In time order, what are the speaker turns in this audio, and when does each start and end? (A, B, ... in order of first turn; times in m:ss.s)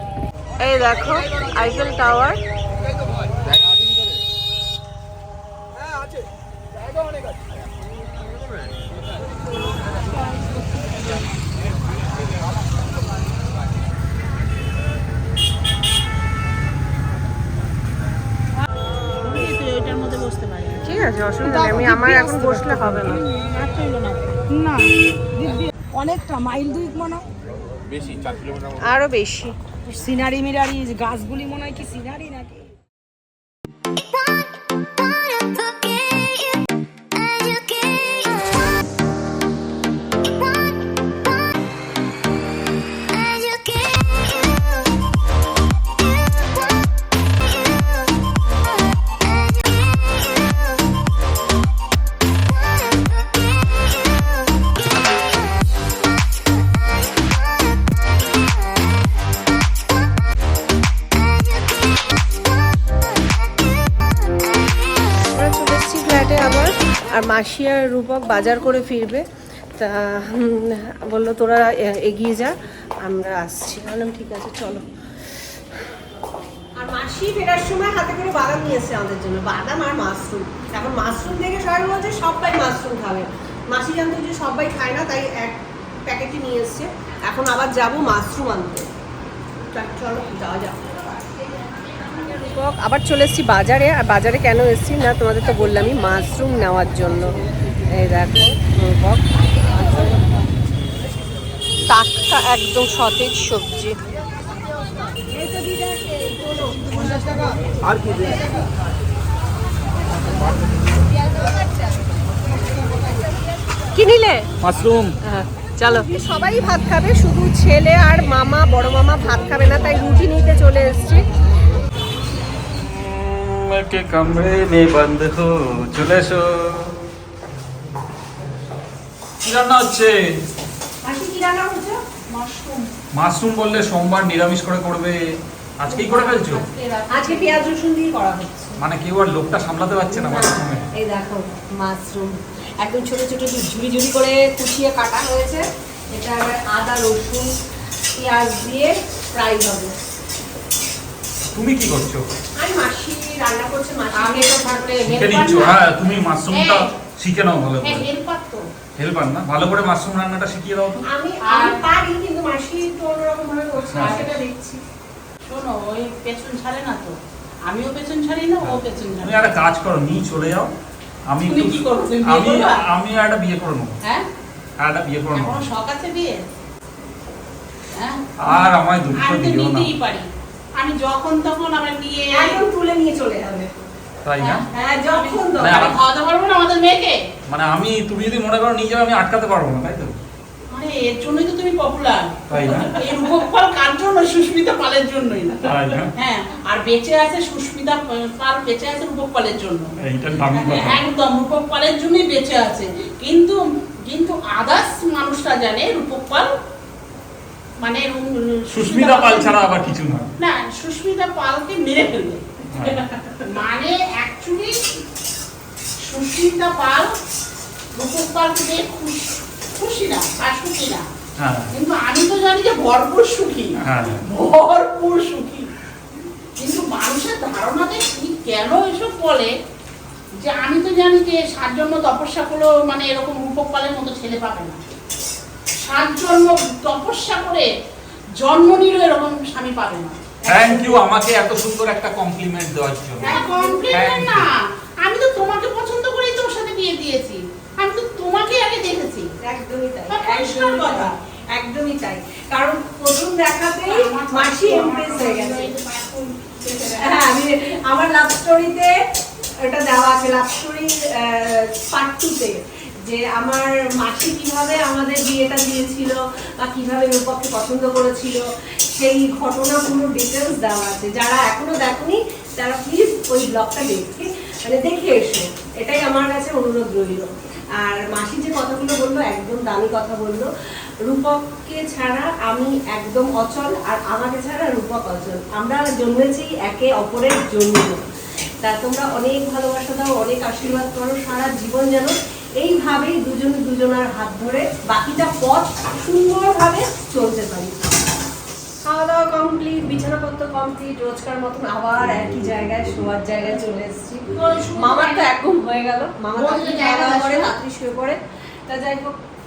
0:00.6-0:02.4 A
0:19.2-0:20.9 B
0:20.8-0:23.3 A
0:21.6-0:27.2 C
0:28.8-0:29.6 A
0:29.8-0:32.7 C
1:05.3-1:09.2 A
1:09.8-1:14.8 A
1:16.8-1:28.9 A
1:29.7-1:31.0 A
1:32.2-1:37.3 A
1:37.9-1:40.2 A
1:41.9-1:44.0 A
1:45.4-1:46.9 A
1:53.9-1:54.5 A
1:54.6-1:55.1 D
1:55.2-2:01.2 A
2:02.8-2:06.9 D
2:09.4-2:10.1 D
2:11.0-2:12.0 A
2:12.3-2:12.9 B
2:13.2-2:15.2 D
2:15.8-2:16.6 D
2:15.9-2:17.7 B
2:17.1-2:18.8 A
2:18.8-2:20.8 D
2:20.1-2:27.5 A
2:28.2-2:30.0 A
2:31.4-2:32.2 D
2:32.6-2:35.0 A
2:34.2-2:35.8 B
2:35.0-2:38.1 D
2:36.5-2:36.9 B
2:37.8-2:38.6 B
2:39.0-2:41.0 D
2:41.0-2:44.8 A
2:41.4-2:41.8 B
2:43.8-2:44.2 D
2:44.0-2:44.4 B
2:45.5-2:47.2 B
2:47.7-2:49.4 B
2:48.6-2:50.7 D
2:51.3-2:53.9 D
2:51.4-2:52.8 B
2:54.8-2:55.6 D
2:55.3-2:56.4 B
2:57.9-3:02.6 B
2:58.4-2:59.9 D
3:02.3-3:03.7 A
3:04.2-3:04.6 D
3:04.4-3:07.2 B
3:04.7-3:06.0 A
3:05.6-3:06.0 D
3:07.5-3:10.2 D
3:10.7-3:19.9 B
3:12.5-3:12.9 D
3:15.6-3:16.1 D
3:20.0-3:21.0 D
3:20.5-3:23.6 B
3:24.1-3:26.5 B
3:27.8-3:29.7 B
3:28.7-3:30.3 D
3:30.4-3:32.4 B
3:32.8-3:33.0 D
3:33.4-3:34.8 B
3:36.0-3:37.1 B
3:38.0-3:41.0 B
3:41.4-3:41.7 D
3:41.7-3:45.7 B
3:43.8-3:44.2 D
3:46.6-3:49.5 B
3:50.4-3:54.8 B
3:55.8-3:57.7 B
3:58.4-4:00.7 B
4:00.5-4:04.5 D
4:00.5-4:00.9 A
4:03.2-4:03.8 A
4:03.2-4:09.3 B
4:09.4-4:15.7 A
4:10.1-4:11.1 B
4:13.9-4:17.2 B
4:17.0-4:18.9 A
4:19.6-4:37.2 A
4:37.8-4:40.5 A
4:41.0-4:48.0 A
4:48.6-4:57.8 A
4:58.8-5:04.2 A
5:04.3-5:05.3 B
5:04.7-5:09.1 A
5:06.4-5:07.5 B